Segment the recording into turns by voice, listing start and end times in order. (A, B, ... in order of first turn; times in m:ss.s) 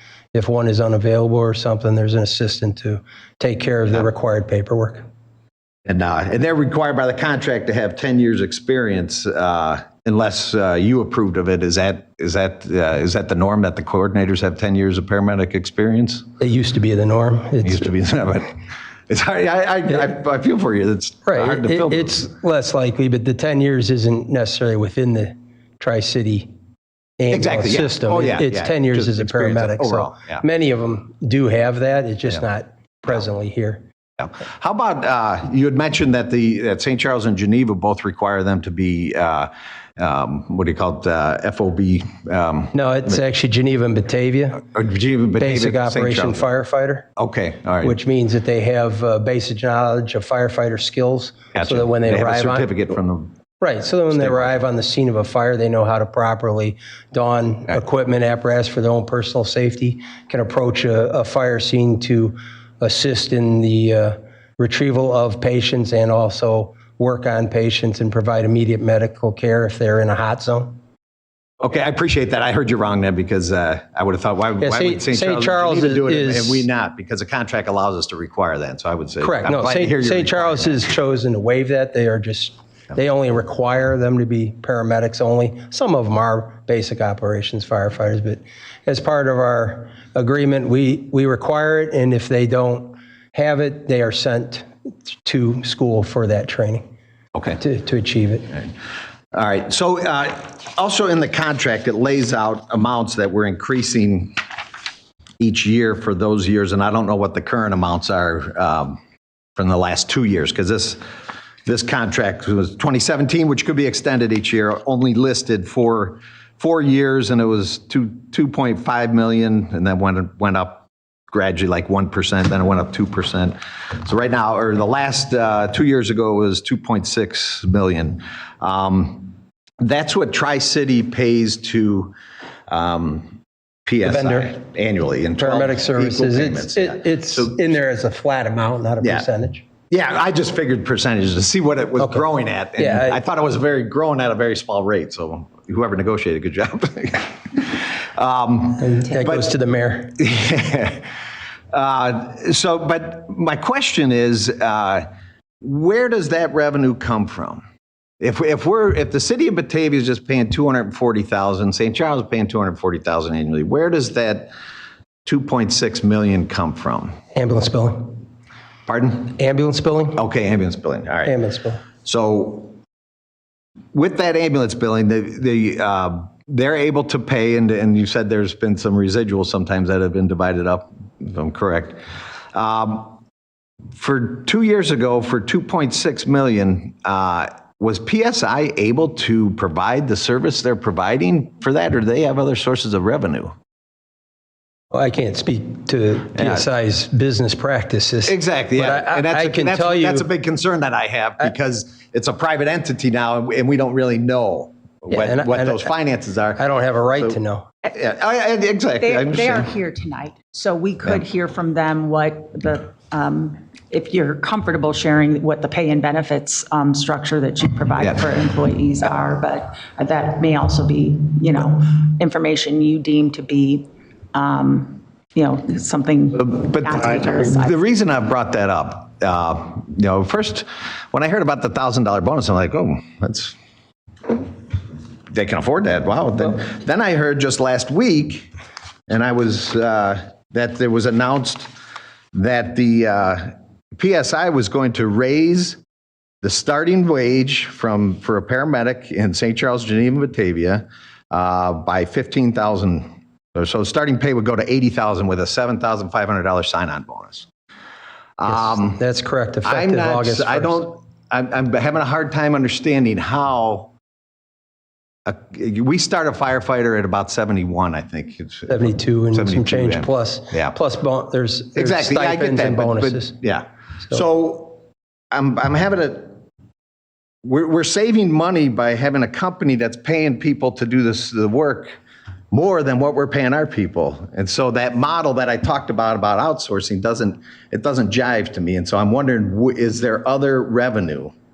0:00.3-0:05.0 A
0:05.9-0:16.3 B
0:16.4-0:17.9 A
0:17.6-0:18.6 B
0:19.1-0:22.2 B
0:21.2-0:26.5 A
0:27.2-0:33.8 A
0:27.3-0:30.4 B
0:34.2-0:42.7 B
0:42.7-0:44.7 A
0:44.6-0:46.5 B
0:45.4-0:47.1 A
0:47.2-0:48.0 B
0:47.8-0:52.8 A
0:51.5-0:53.3 B
0:53.6-1:10.8 A
0:54.1-0:54.7 B
1:11.6-1:20.8 B
1:14.6-1:16.7 A
1:19.2-1:36.8 A
1:37.6-1:38.6 A
1:39.3-1:44.4 B
1:45.4-1:49.0 B
1:49.6-1:51.0 B
1:51.7-2:12.1 B
2:12.7-2:17.7 B
2:14.0-2:14.6 A
2:15.4-2:19.7 A
2:19.0-2:19.3 B
2:19.9-2:29.5 B
2:22.0-2:22.2 A
2:22.8-2:23.2 A
2:28.8-2:30.2 A
2:30.2-2:31.1 B
2:31.7-2:35.1 B
2:35.6-2:37.6 B
2:38.2-2:44.5 B
2:45.3-2:47.1 B
2:47.4-2:48.2 A
2:48.9-2:49.3 B
2:49.3-2:50.2 A
2:50.2-2:51.4 B
2:51.2-2:51.8 A
2:52.0-2:52.8 B
2:53.9-3:02.0 B
3:02.5-3:03.2 B
3:04.0-3:13.5 B
3:14.9-3:20.3 A
3:16.4-3:16.7 B
3:18.2-3:29.7 B
3:25.1-3:25.9 A
3:26.6-3:27.7 A
3:29.0-3:47.8 C
3:46.4-3:53.6 B
3:55.3-3:58.5 B
3:59.1-4:01.7 B
4:02.3-4:05.8 B
4:06.4-4:17.5 B
4:18.4-4:19.0 B
4:18.5-4:20.8 A
4:19.6-4:23.9 B
4:25.2-4:30.8 B
4:28.7-4:33.4 A
4:31.8-4:36.4 B
4:37.4-4:41.9 B
4:42.5-4:51.3 B